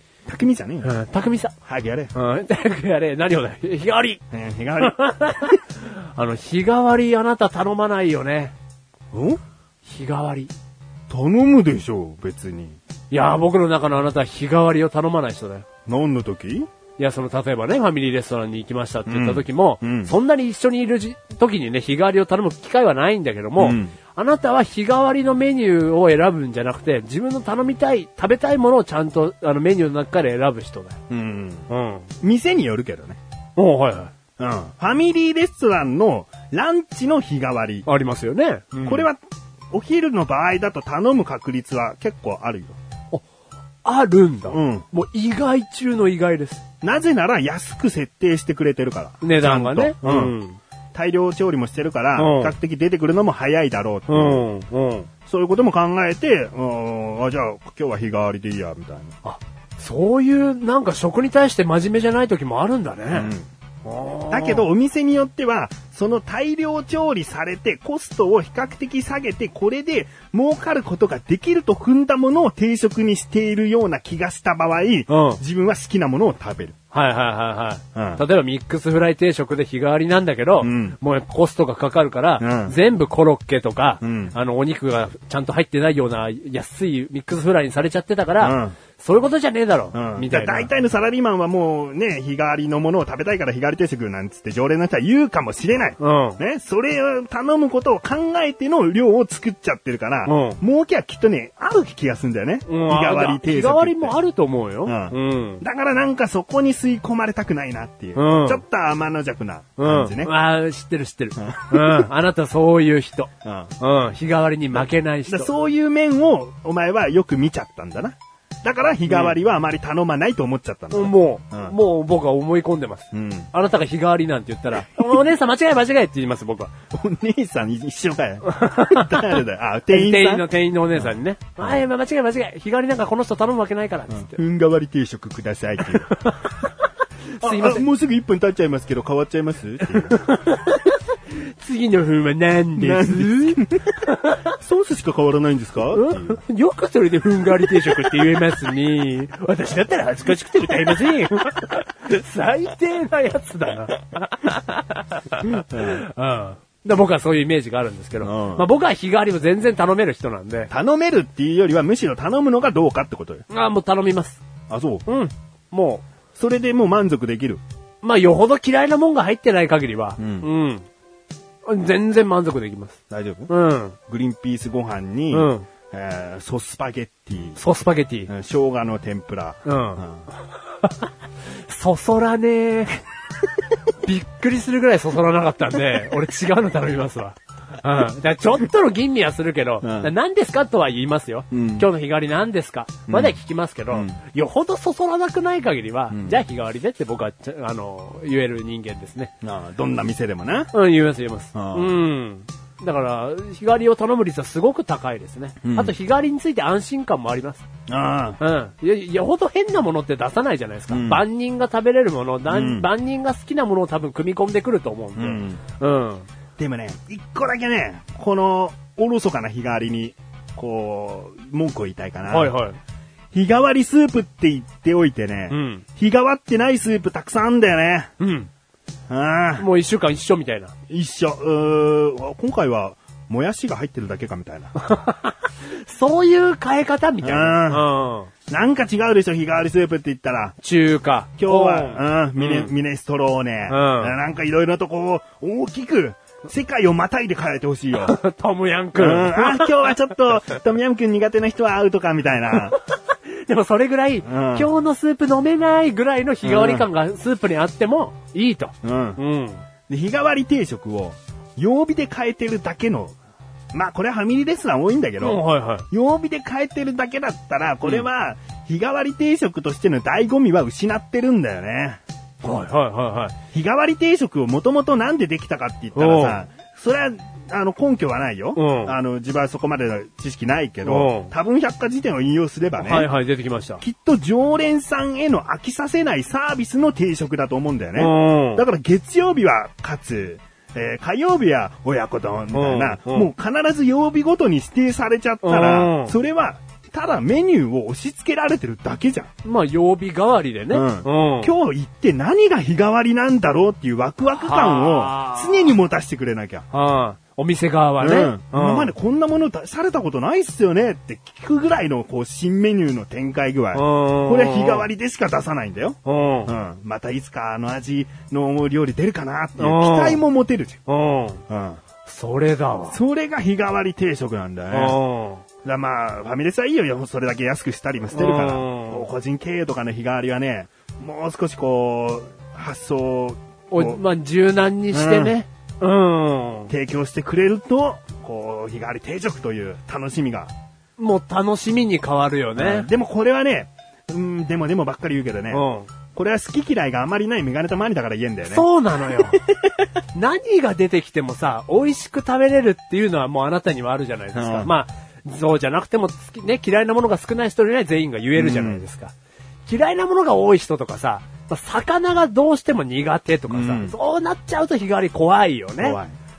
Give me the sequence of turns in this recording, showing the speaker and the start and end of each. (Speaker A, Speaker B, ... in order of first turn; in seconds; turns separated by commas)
Speaker A: 0.3-0.9, Speaker B: 0.8-1.5, Speaker A: 1.6-2.1, Speaker B: 2.1-4.2, Speaker A: 4.3-5.5, Speaker B: 4.8-8.5, Speaker A: 9.1-9.4, Speaker B: 9.8-10.5, Speaker A: 11.1-12.8, Speaker B: 13.1-15.7, Speaker A: 15.9-16.7, Speaker B: 17.0-31.0, Speaker A: 19.1-20.1, Speaker A: 23.6-23.9, Speaker A: 31.1-31.7, Speaker B: 31.7-32.1, Speaker A: 32.2-33.2, Speaker B: 33.6-34.1, Speaker A: 34.4-37.9, Speaker B: 37.9-39.1, Speaker A: 38.8-39.2, Speaker A: 39.7-42.8, Speaker B: 43.9-46.6, Speaker A: 44.5-44.9, Speaker A: 46.8-50.4, Speaker B: 49.2-50.6, Speaker A: 50.9-54.5, Speaker B: 52.2-52.5, Speaker B: 54.1-55.1, Speaker A: 55.3-59.1, Speaker B: 59.2-63.3, Speaker A: 63.1-63.5, Speaker B: 63.8-64.6, Speaker A: 64.3-76.8, Speaker B: 75.1-75.4, Speaker B: 76.9-90.7, Speaker A: 78.0-78.2, Speaker A: 80.6-81.0, Speaker A: 82.4-82.8, Speaker A: 84.0-84.4, Speaker A: 88.4-88.8, Speaker A: 89.9-104.2, Speaker B: 96.0-96.4, Speaker B: 100.3-100.6, Speaker B: 102.7-105.6, Speaker A: 104.8-110.3, Speaker B: 108.2-108.6, Speaker B: 109.8-115.5, Speaker A: 111.4-112.1, Speaker A: 113.4-113.7, Speaker A: 114.7-121.8, Speaker B: 119.1-119.4, Speaker B: 120.9-126.7, Speaker A: 123.1-123.5, Speaker A: 126.9-131.8, Speaker B: 128.5-134.4, Speaker A: 134.1-136.2, Speaker B: 136.1-136.7, Speaker B: 137.4-137.8, Speaker A: 137.4-140.2, Speaker B: 139.9-144.5, Speaker A: 142.8-143.9, Speaker A: 144.6-146.4, Speaker B: 145.9-160.7, Speaker A: 155.6-156.0, Speaker A: 158.2-158.7, Speaker A: 160.7-163.4, Speaker B: 163.5-164.4, Speaker A: 164.7-165.1, Speaker B: 165.1-166.1, Speaker A: 166.3-167.6, Speaker B: 168.0-170.9, Speaker A: 170.2-170.5, Speaker B: 171.7-173.0, Speaker A: 173.1-173.5, Speaker B: 173.5-174.0, Speaker A: 174.1-177.6, Speaker B: 175.3-175.7, Speaker B: 177.6-178.3, Speaker A: 178.3-180.3, Speaker B: 179.7-180.0, Speaker B: 180.8-183.0, Speaker B: 184.0-199.3, Speaker A: 189.8-190.1, Speaker A: 191.5-191.9, Speaker A: 193.1-193.4, Speaker A: 193.9-194.2, Speaker A: 196.1-196.4, Speaker A: 199.4-200.7, Speaker B: 200.7-207.6, Speaker A: 201.5-201.9, Speaker A: 205.6-205.9, Speaker A: 207.9-208.4, Speaker B: 208.4-216.3, Speaker A: 210.9-211.2, Speaker A: 212.5-212.9, Speaker A: 215.2-215.6, Speaker A: 216.6-222.6, Speaker B: 222.3-222.8, Speaker A: 223.3-228.1, Speaker B: 225.5-225.8, Speaker B: 228.2-228.5, Speaker A: 229.1-229.7, Speaker B: 229.6-230.7, Speaker A: 230.9-234.8, Speaker B: 234.8-238.3, Speaker A: 237.2-237.9, Speaker A: 238.5-240.6, Speaker B: 240.6-242.7, Speaker A: 241.4-248.2, Speaker B: 243.7-244.1, Speaker B: 247.9-249.9, Speaker A: 249.0-252.8, Speaker B: 253.3-259.6, Speaker A: 254.2-254.7, Speaker A: 256.4-256.9, Speaker A: 258.8-259.2, Speaker A: 259.9-263.2, Speaker A: 263.7-272.0, Speaker B: 265.2-265.9, Speaker B: 272.4-273.4, Speaker A: 273.5-283.1, Speaker B: 275.9-276.4, Speaker B: 278.6-279.0, Speaker B: 280.8-281.3, Speaker B: 282.8-283.8, Speaker A: 283.8-299.3, Speaker B: 288.0-288.6, Speaker B: 292.5-293.3, Speaker B: 295.4-296.1, Speaker B: 299.4-301.5, Speaker A: 300.7-306.6, Speaker B: 304.3-305.8, Speaker B: 306.7-308.9, Speaker A: 308.0-320.8, Speaker B: 313.7-314.9, Speaker B: 316.1-316.5, Speaker B: 319.6-320.2, Speaker B: 320.9-321.4, Speaker A: 321.5-321.8, Speaker B: 322.1-323.0, Speaker A: 322.9-325.0, Speaker B: 324.7-325.4, Speaker A: 325.6-334.0, Speaker B: 328.1-329.1, Speaker B: 333.7-336.7, Speaker A: 334.9-335.4, Speaker A: 336.7-340.5, Speaker B: 341.0-342.9, Speaker A: 342.6-349.8, Speaker B: 345.5-345.9, Speaker B: 348.5-349.4, Speaker B: 350.1-359.1, Speaker A: 354.3-354.7, Speaker A: 358.4-358.8, Speaker B: 359.7-366.0, Speaker A: 363.5-363.9, Speaker A: 365.8-366.1